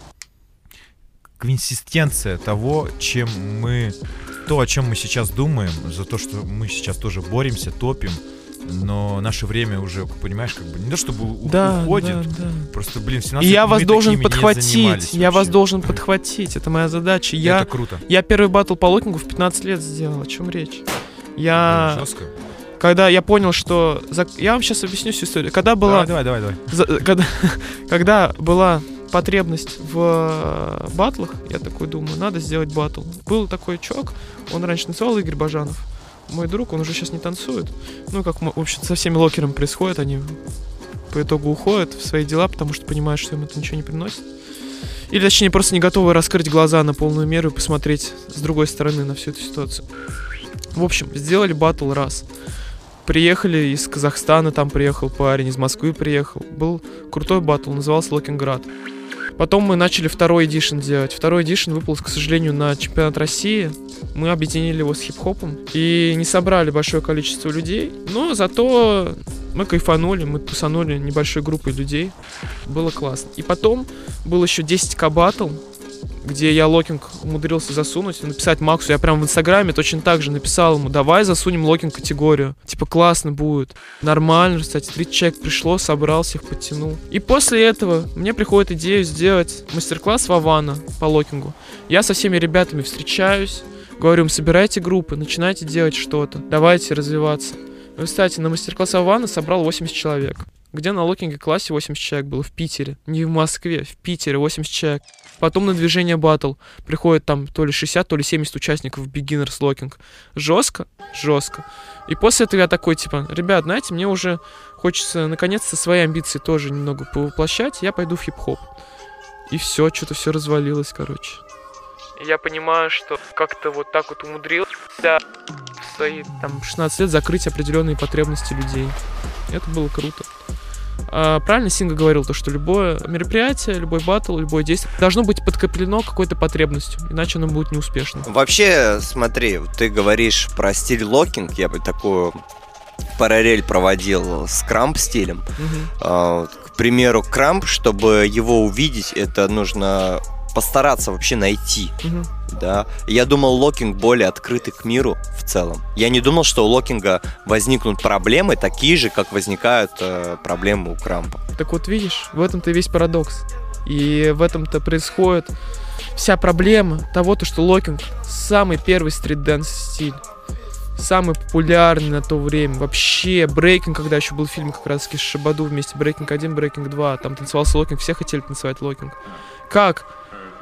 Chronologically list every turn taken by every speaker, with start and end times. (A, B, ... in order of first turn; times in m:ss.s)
0:01.4-0:16.0 A
0:11.4-0:12.7 B
0:13.4-0:20.8 B
0:17.4-0:18.0 A
0:21.4-0:22.1 B
0:21.5-0:22.3 A
0:22.8-0:40.4 B
0:25.8-0:26.6 A
0:41.1-0:44.2 B
0:45.1-0:49.8 B
0:50.7-0:52.2 B
0:53.0-0:58.7 B
0:59.4-1:15.6 B
1:16.2-1:58.7 B
1:59.5-2:01.4 B
2:02.2-2:05.2 B
2:05.8-2:09.0 B
2:09.5-2:10.3 B
2:11.1-2:18.3 B
2:18.2-2:22.4 C
2:23.1-2:25.5 C
2:25.6-2:25.9 B
2:26.0-2:32.0 C
2:32.0-2:32.3 B
2:32.5-2:41.4 C
2:41.6-2:45.5 B
2:46.1-2:50.2 B
2:51.0-2:59.2 B
2:59.7-3:00.1 B